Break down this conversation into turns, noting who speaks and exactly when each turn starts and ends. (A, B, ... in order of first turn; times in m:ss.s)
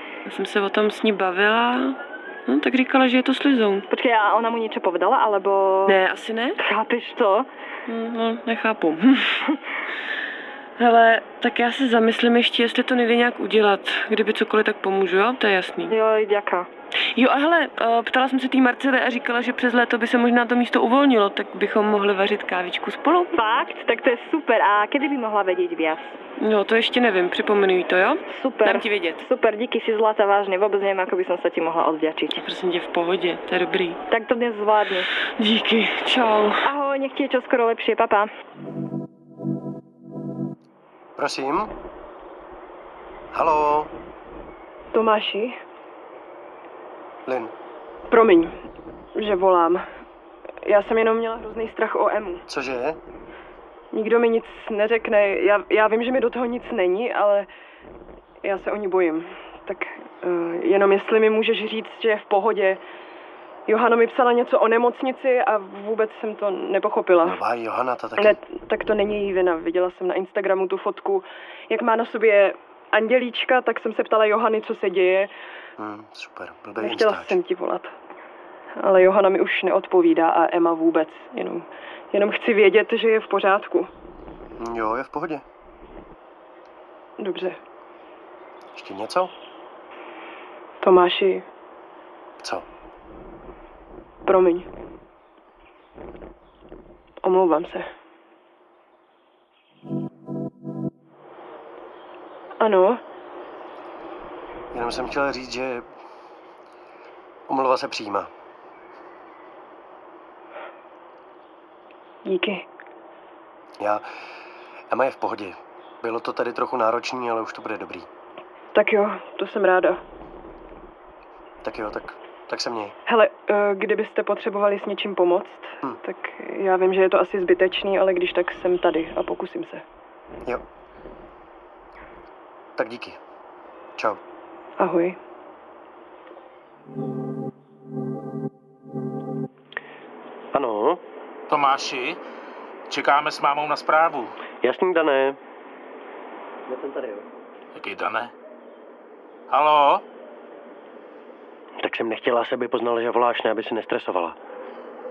0:00.3-0:03.8 A
0:03.9-0:06.0 B
0:05.8-0:06.6 A
0:06.6-0:07.5 B
0:07.9-0:09.4 A
0:10.8-0:15.9 A
0:15.9-0:16.7 B
0:17.2-0:23.3 A
0:23.3-0:26.1 B
0:26.4-0:29.2 A
0:28.3-0:32.4 B
0:32.3-0:34.0 A
0:34.1-0:35.1 B
0:35.4-0:36.6 A
0:36.6-0:38.3 B
0:41.2-0:41.7 C
0:43.3-0:43.9 C
0:44.9-0:45.6 D
0:47.2-0:47.5 C
0:48.1-0:48.6 D
0:49.2-0:49.9 D
0:50.6-0:52.4 D
0:52.5-0:53.0 C
0:53.9-0:57.5 D
0:58.4-1:02.8 D
1:03.7-1:07.4 D
1:07.2-1:08.4 C
1:08.2-1:15.3 D
1:15.8-1:17.4 C
1:16.8-1:17.9 D
1:18.8-1:23.9 D
1:24.6-1:25.4 C
1:27.2-1:27.6 D
1:28.7-1:29.3 C
1:30.8-1:31.4 D
1:34.2-1:34.7 D
1:37.2-1:37.9 D
1:42.6-1:43.0 D
1:44.7-1:45.8 C
1:47.5-1:48.3 C
1:52.2-1:52.6 D
1:54.9-1:58.1 C
1:58.7-2:00.0 D
2:01.6-2:02.9 C
2:03.1-2:09.8 D
2:12.8-2:13.2 C
2:14.8-2:15.2 D
2:20.5-2:21.0 C
2:21.5-2:22.2 E
2:22.9-2:24.3 E
2:24.6-2:25.4 C
2:26.7-2:27.3 C
2:27.7-2:28.3 E
2:29.5-2:30.0 E
2:31.8-2:34.4 C